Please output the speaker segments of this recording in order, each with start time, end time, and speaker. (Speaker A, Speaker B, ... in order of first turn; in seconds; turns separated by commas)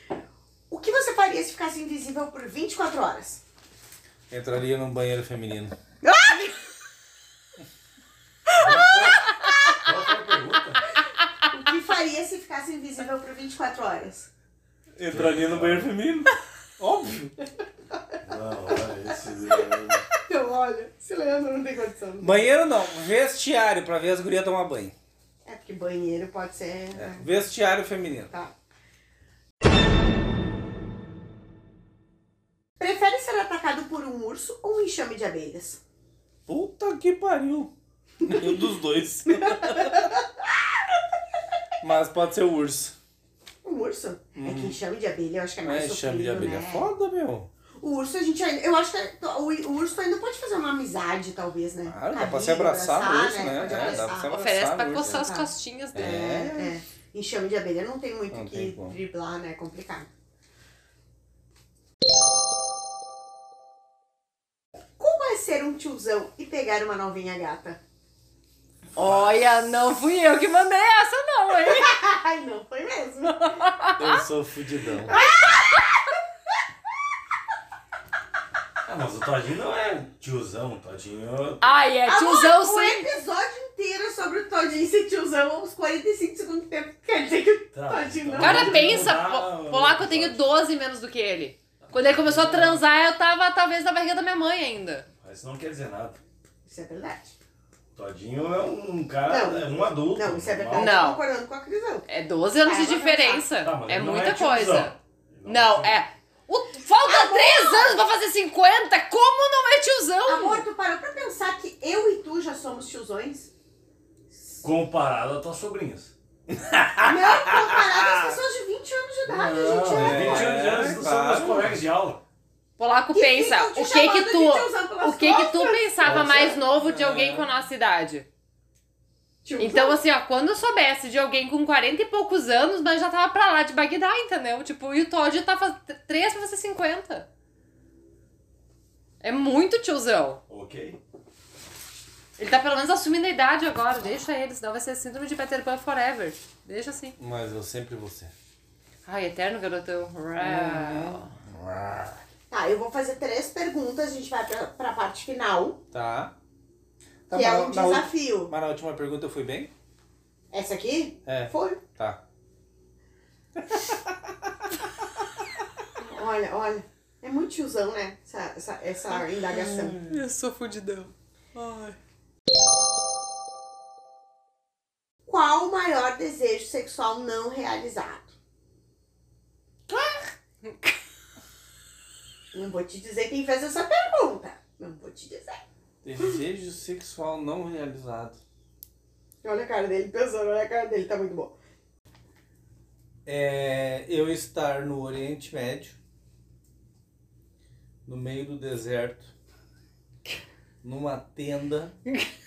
Speaker A: 0.7-3.4, Speaker B: 4.3-5.8, Speaker A: 6.0-6.6, Speaker A: 8.5-9.8, Speaker C: 8.6-10.8, Speaker A: 11.5-14.3, Speaker B: 15.0-17.4, Speaker C: 15.1-15.9, Speaker C: 18.2-20.1, Speaker A: 20.1-22.5, Speaker B: 22.2-24.9, Speaker A: 25.4-27.3, Speaker B: 26.9-28.3, Speaker A: 32.8-35.8, Speaker B: 36.5-37.7, Speaker A: 38.2-38.6, Speaker B: 38.2-40.1, Speaker A: 39.3-40.3, Speaker B: 41.8-43.0, Speaker A: 43.6-46.9, Speaker B: 44.4-44.8, Speaker B: 45.6-47.5, Speaker A: 47.8-54.4, Speaker B: 51.9-55.3, Speaker D: 53.7-56.5, Speaker A: 55.0-60.1, Speaker B: 56.0-56.7, Speaker B: 58.3-59.0, Speaker A: 65.0-67.8, Speaker D: 69.0-72.0, Speaker C: 69.0-69.3, Speaker A: 71.7-73.6, Speaker D: 73.2-74.2, Speaker B: 74.0-75.2, Speaker A: 75.1-75.9, Speaker C: 78.8-81.8, Speaker D: 81.6-83.1, Speaker A: 82.1-89.2, Speaker C: 87.7-90.4, Speaker D: 88.4-95.1, Speaker C: 91.8-92.8, Speaker C: 95.2-96.2, Speaker A: 96.7-97.4, Speaker C: 98.0-101.0, Speaker A: 99.3-102.1, Speaker D: 100.7-101.2, Speaker D: 102.1-110.6, Speaker A: 102.6-103.5, Speaker C: 103.6-106.0, Speaker A: 107.1-108.0, Speaker A: 110.2-113.5, Speaker C: 114.6-116.1, Speaker B: 116.5-118.4, Speaker A: 117.0-120.6, Speaker B: 119.3-121.8, Speaker C: 119.5-122.2, Speaker D: 122.8-128.3, Speaker A: 123.1-126.5, Speaker C: 126.0-126.6, Speaker B: 126.7-127.5, Speaker A: 129.4-130.0, Speaker D: 129.6-137.3, Speaker D: 139.2-140.4, Speaker C: 140.5-141.0, Speaker D: 142.4-147.2, Speaker B: 147.2-148.3, Speaker D: 149.1-151.3, Speaker B: 150.4-152.2, Speaker A: 152.5-155.8, Speaker B: 155.9-156.3, Speaker B: 157.3-159.7, Speaker A: 157.3-158.5, Speaker A: 160.5-161.8, Speaker B: 161.3-162.2, Speaker B: 163.6-164.1, Speaker A: 166.0-170.0, Speaker D: 169.6-172.0, Speaker A: 175.3-178.3, Speaker A: 182.5-185.6, Speaker B: 186.0-188.4, Speaker A: 189.4-191.6, Speaker B: 193.3-196.0, Speaker B: 198.1-199.3, Speaker B: 200.8-202.0